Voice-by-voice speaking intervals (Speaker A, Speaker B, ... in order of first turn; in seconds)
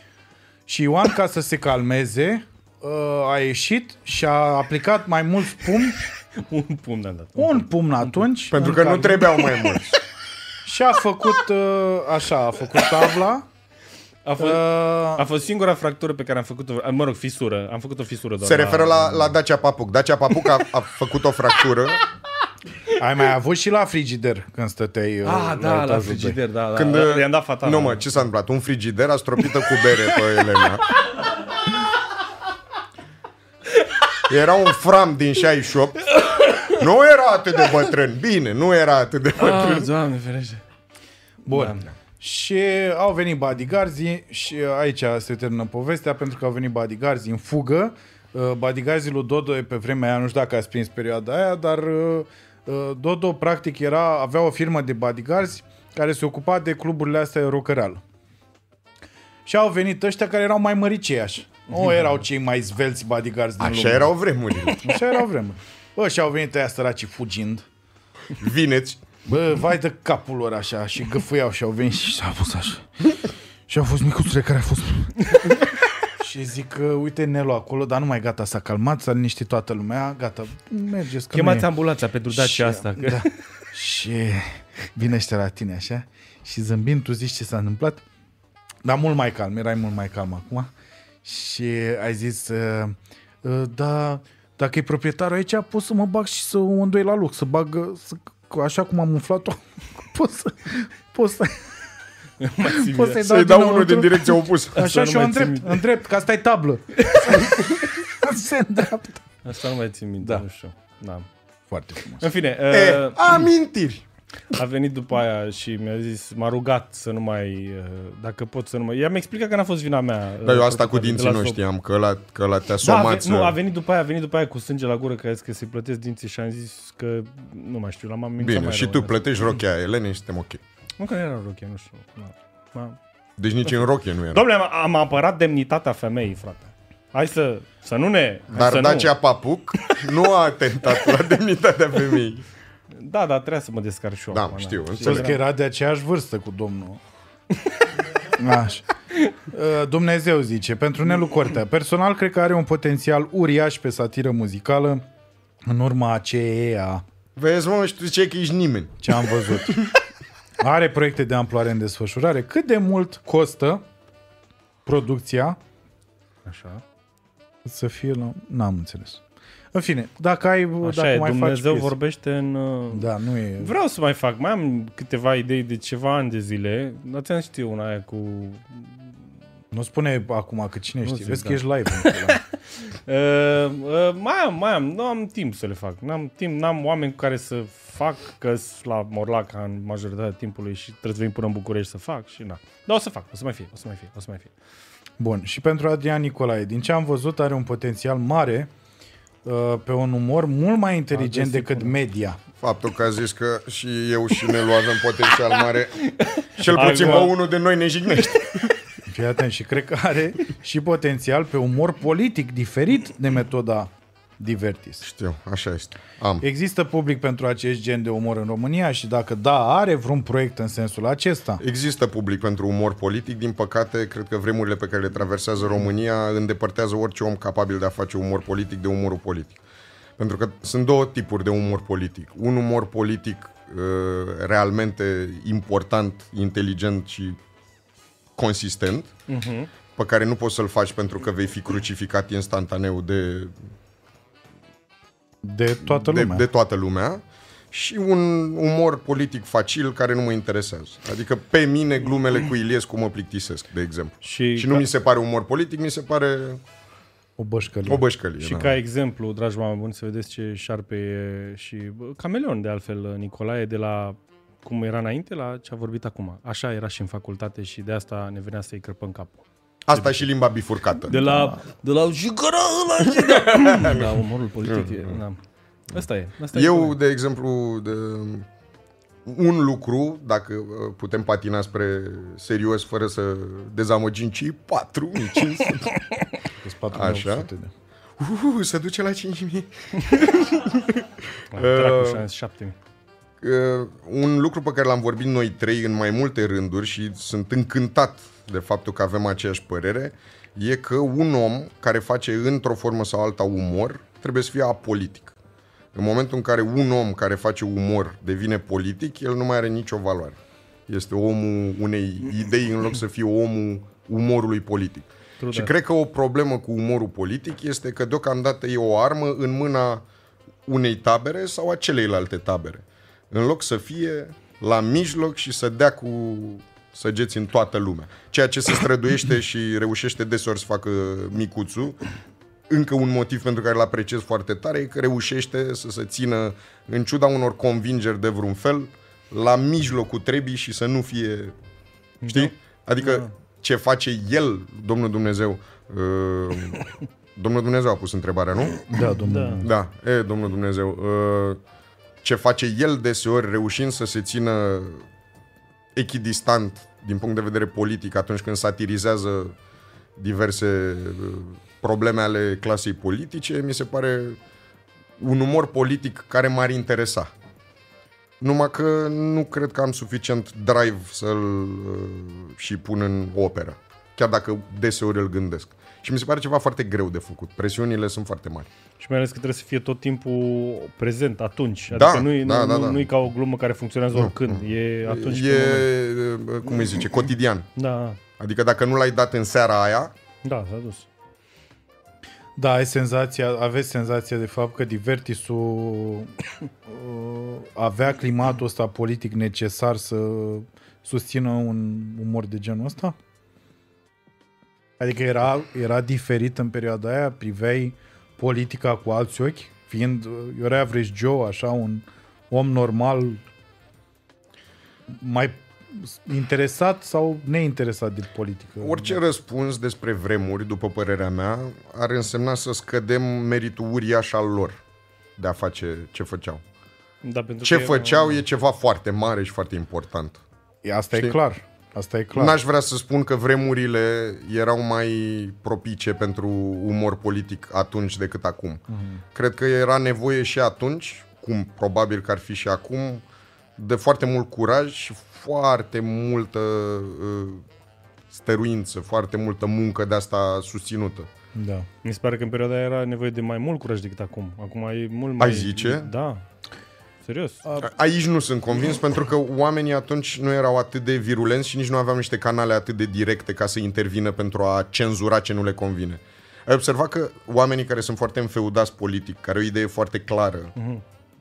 Speaker A: 0.7-6.0, 7.3-9.5, 10.6-13.4, 14.4-15.3, 22.9-26.4, 41.5-58.0, 59.5-64.1, 64.8-67.6, 69.2-73.2, 73.7-75.3, 76.2-81.7, 82.3-88.0, 88.8-90.7, 91.2-101.6, 102.6-109.2, 111.7-112.2, 145.0-147.0, 148.3-148.8, 149.5-155.0, 155.7-157.0, 159.0-159.9, 160.6-163.8, 164.8-165.6, 167.6-169.2, 169.7-171.9, 172.9-173.7, 179.7-182.4, 195.2-198.7, 199.4-202.4, 209.1-215.0, 216.4-221.6, 245.4-246.5, 257.4-258.0, 271.1-271.6, 286.6-287.7, 348.9-349.7, 392.6-396.3, 396.9-403.2, 405.0-413.4, 415.1-419.2, 430.8-432.6, 438.9-439.2, 451.5-451.9
Speaker B: 6.3-8.3, 14.2-19.3, 25.2-28.1, 36.1-36.7, 39.4-40.6, 41.5-41.9, 81.3-83.3, 102.4-103.2, 104.7-105.8, 107.0-107.5, 109.4-111.3, 112.2-113.5, 114.5-121.6, 122.8-129.2, 131.0-133.0, 134.3-139.1, 142.9-145.4, 166.4-166.8, 170.8-178.9, 181.0-194.5, 201.1-201.9, 206.0-207.3, 239.3-239.7, 254.2-254.9, 258.4-269.4, 269.9-270.3, 271.1-275.4, 275.9-276.9, 291.5-292.8, 315.4-315.7, 342.2-343.3, 349.2-349.6, 379.0-385.9, 387.8-388.2, 390.4-391.1, 427.2-428.4, 452.0-456.4, 457.2-457.6, 470.8-471.0
Speaker C: 8.5-10.0, 18.4-22.0, 26.7-30.9, 34.3-36.1, 36.7-39.9, 63.6-64.8, 68.4-69.0, 103.2-104.8, 112.7-114.0, 120.4-123.5, 128.4-130.6, 133.4-134.4, 138.5-142.4, 144.3-145.3, 157.3-159.9, 202.6-206.0, 206.6-208.7, 215.0-216.4, 221.6-229.6, 230.2-237.4, 238.4-239.1, 239.9-243.5, 245.8-256.6, 257.8-258.8, 269.9-271.1, 273.1-274.1, 274.6-275.2, 276.5-278.4, 279.2-286.0, 286.9-287.5, 288.2-292.2, 293.4-305.3, 305.9-310.4, 310.9-320.0, 320.7-332.0, 332.7-341.5, 342.3-348.9, 349.6-351.6, 352.2-355.0, 355.9-359.5, 360.2-364.4, 365.2-367.3, 368.4-378.7, 381.9-383.1, 384.1-387.7, 388.4-390.1, 418.8-424.8, 425.4-426.6, 427.6-430.4, 432.3-438.8, 439.3-443.2, 443.8-447.6, 448.3-451.3, 455.4-456.1, 457.8-470.7